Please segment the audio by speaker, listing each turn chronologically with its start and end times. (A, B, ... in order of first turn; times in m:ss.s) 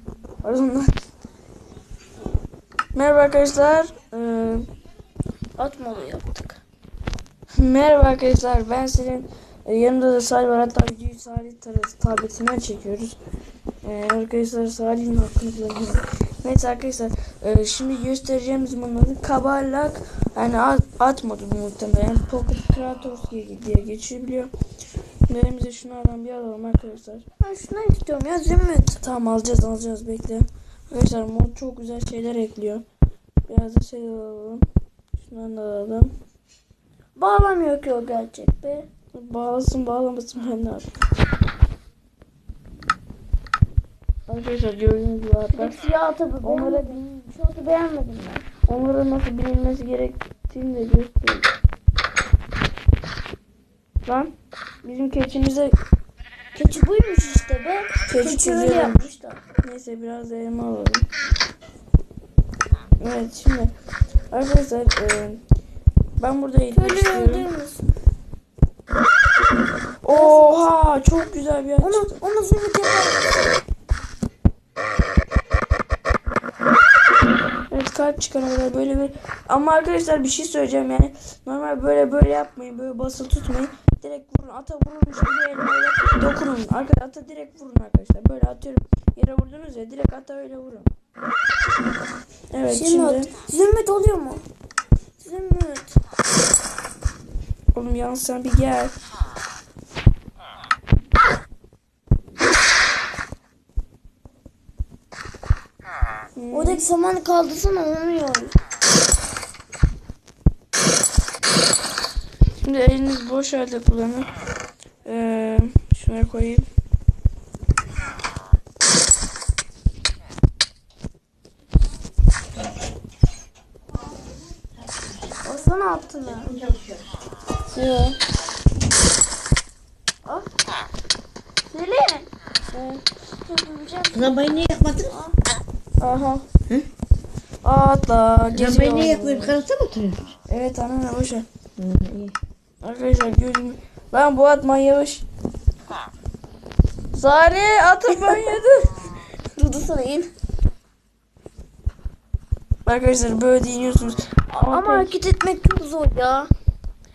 0:00.4-0:00.9 A
0:02.9-0:04.7 A
0:05.6-0:06.6 B
0:07.6-0:13.2 A
0:13.8-0:24.5 A
0:25.3-0:27.2 A
0:27.4-0:29.0 B
0:29.0-0:32.8 A
0:33.5-0:34.6 A
0:35.2-0:36.1 A
0:37.2-0:38.9 B
0:39.1-0:40.9 A
0:44.3-0:45.8 A
0:45.5-0:48.5 B
0:46.4-0:47.0 A
0:48.7-0:51.5 A
0:54.1-0:54.3 A
0:54.8-0:55.8 A
0:56.5-0:59.4 B
0:58.1-0:59.1 A
0:59.6-1:01.1 A
1:03.0-1:03.7 A
1:04.3-1:05.4 A
1:06.2-1:07.5 A
1:06.7-1:07.8 B
1:10.0-1:12.2 A
1:10.1-1:10.7 B
1:11.8-1:13.5 B
1:17.7-1:30.9 A
1:32.5-1:33.3 A
1:32.7-1:34.4 B
1:35.2-1:36.0 B
1:37.7-1:38.9 A
1:46.4-1:46.8 A
1:46.5-1:48.6 B
1:52.6-1:54.3 A
1:55.0-1:56.7 A
2:05.4-2:06.5 B
2:06.4-2:07.0 C
2:07.7-2:08.2 A
2:11.7-2:15.3 B
2:14.1-2:15.2 C
2:16.0-2:16.4 A
2:17.6-2:19.6 A
2:18.5-2:20.3 C
2:20.5-2:21.5 A
2:21.8-2:22.3 C
2:22.8-2:25.2 A
2:27.1-2:28.9 A
2:29.6-2:30.3 B
2:32.9-2:35.1 A
2:34.5-2:36.5 B